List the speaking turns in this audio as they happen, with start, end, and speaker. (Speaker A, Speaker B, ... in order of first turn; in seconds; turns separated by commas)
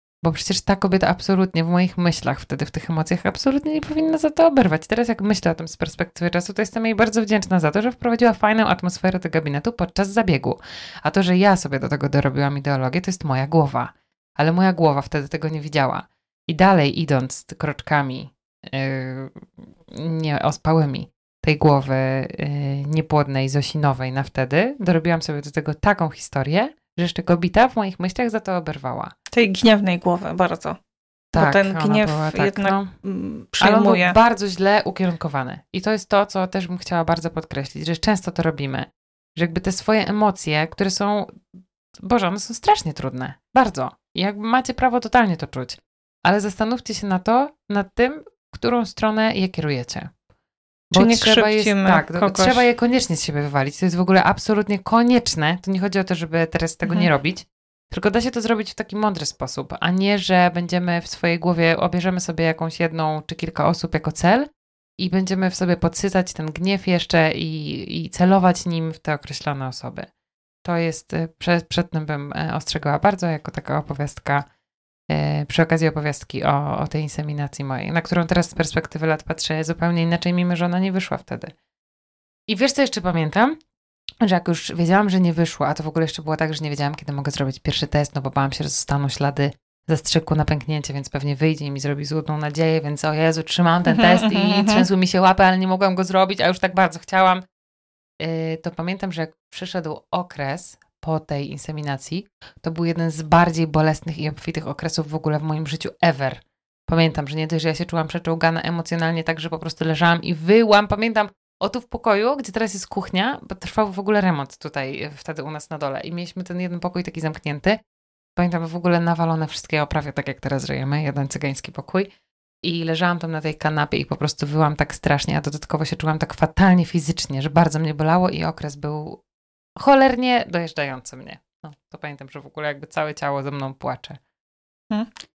Speaker A: 0.2-29.1, Speaker B: 29.3-30.8, Speaker A: 31.3-32.9, Speaker B: 31.3-34.1, Speaker A: 33.6-41.4, Speaker A: 42.0-50.1, Speaker B: 50.9-52.6, Speaker A: 50.9-64.5, Speaker B: 56.8-57.1, Speaker A: 65.0-70.1, Speaker A: 70.6-74.4, Speaker A: 75.1-81.5, Speaker A: 82.5-83.6, Speaker A: 84.2-97.4, Speaker B: 93.9-94.8, Speaker A: 98.2-117.8, Speaker A: 118.3-122.1, Speaker A: 122.6-129.2, Speaker A: 129.8-134.2